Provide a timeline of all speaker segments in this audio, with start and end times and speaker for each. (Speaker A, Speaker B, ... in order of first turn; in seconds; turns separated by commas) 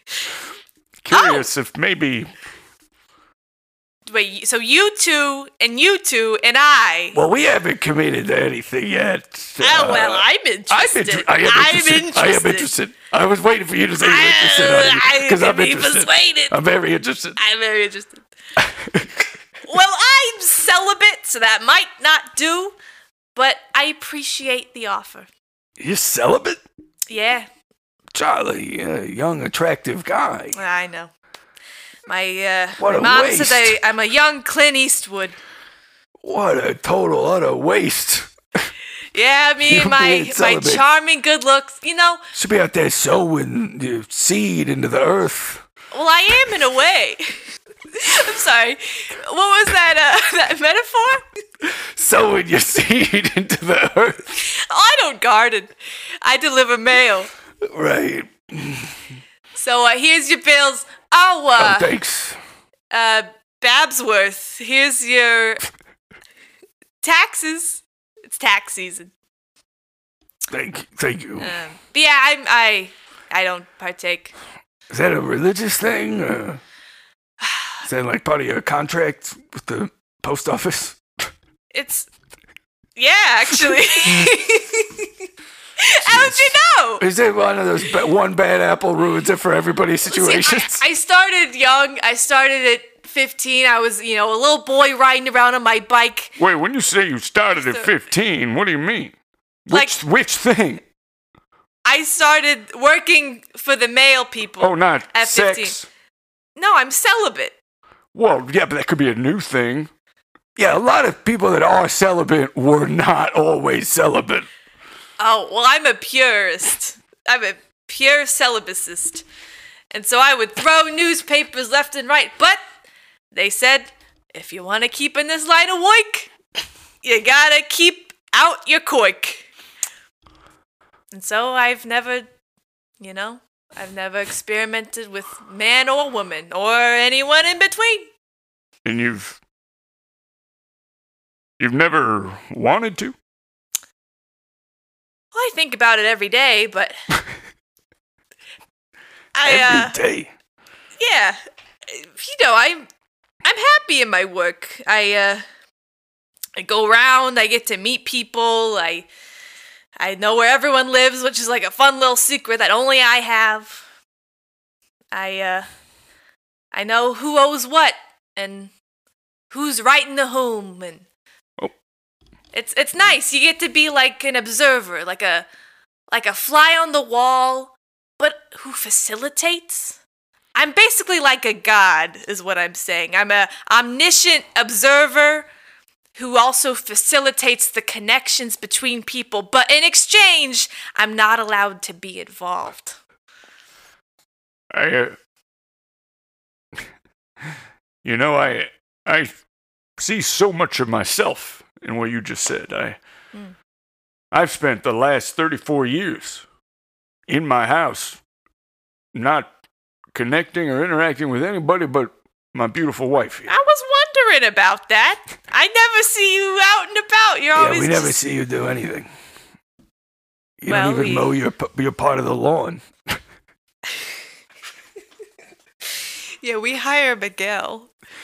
Speaker A: 1.1-2.3, Speaker B: 1.1-1.5, Speaker B: 4.1-7.2, Speaker C: 7.1-17.4, Speaker B: 9.6-12.7, Speaker B: 14.0-16.6, Speaker B: 17.4-18.2, Speaker C: 18.6-19.1, Speaker B: 19.6-22.8, Speaker B: 23.4-25.3, Speaker C: 25.8-26.6, Speaker B: 27.1-27.5, Speaker C: 28.1-30.6, Speaker B: 30.5-31.1, Speaker B: 32.1-35.4, Speaker C: 32.8-33.8, Speaker C: 36.2-38.3, Speaker B: 39.1-42.2, Speaker C: 39.6-40.8, Speaker C: 42.3-45.6, Speaker B: 45.9-47.4, Speaker B: 47.9-51.2, Speaker C: 51.6-54.4, Speaker B: 54.3-57.3, Speaker C: 57.6-59.0, Speaker B: 59.5-61.9, Speaker C: 61.6-62.4, Speaker B: 62.9-65.6, Speaker B: 67.0-69.1, Speaker C: 70.5-71.6, Speaker B: 71.4-74.3, Speaker C: 74.9-76.6, Speaker B: 77.4-77.8, Speaker C: 77.8-81.0, Speaker B: 81.7-82.1, Speaker B: 83.0-85.1, Speaker B: 85.8-87.0, Speaker C: 86.0-90.8, Speaker B: 90.1-96.3, Speaker A: 96.4-99.1, Speaker B: 97.6-97.9, Speaker A: 99.7-100.8, Speaker B: 99.7-100.0, Speaker B: 101.8-105.8, Speaker A: 104.6-105.9, Speaker B: 106.6-107.6, Speaker A: 108.1-109.9, Speaker C: 110.6-114.5, Speaker B: 115.2-119.2, Speaker B: 119.9-122.6, Speaker B: 123.3-126.3, Speaker B: 127.0-129.5, Speaker B: 131.1-132.3, Speaker B: 133.0-138.1, Speaker A: 138.8-139.4, Speaker A: 141.6-143.1, Speaker B: 145.3-147.0, Speaker B: 149.3-150.0, Speaker C: 149.4-150.3, Speaker B: 151.0-152.9, Speaker B: 153.4-155.4, Speaker B: 156.6-159.1, Speaker B: 160.0-163.8, Speaker B: 165.1-165.7, Speaker B: 166.7-168.7, Speaker B: 169.5-171.1, Speaker B: 172.5-175.5, Speaker B: 176.1-180.0, Speaker B: 180.6-185.5, Speaker B: 186.2-193.0, Speaker A: 194.7-195.2, Speaker A: 198.0-199.3, Speaker A: 200.0-203.0, Speaker A: 204.3-206.4, Speaker A: 207.3-208.2, Speaker A: 209.1-209.5, Speaker A: 210.1-213.5, Speaker B: 213.5-218.2, Speaker C: 217.6-219.1, Speaker C: 220.6-223.2, Speaker B: 220.7-221.4, Speaker B: 226.4-227.9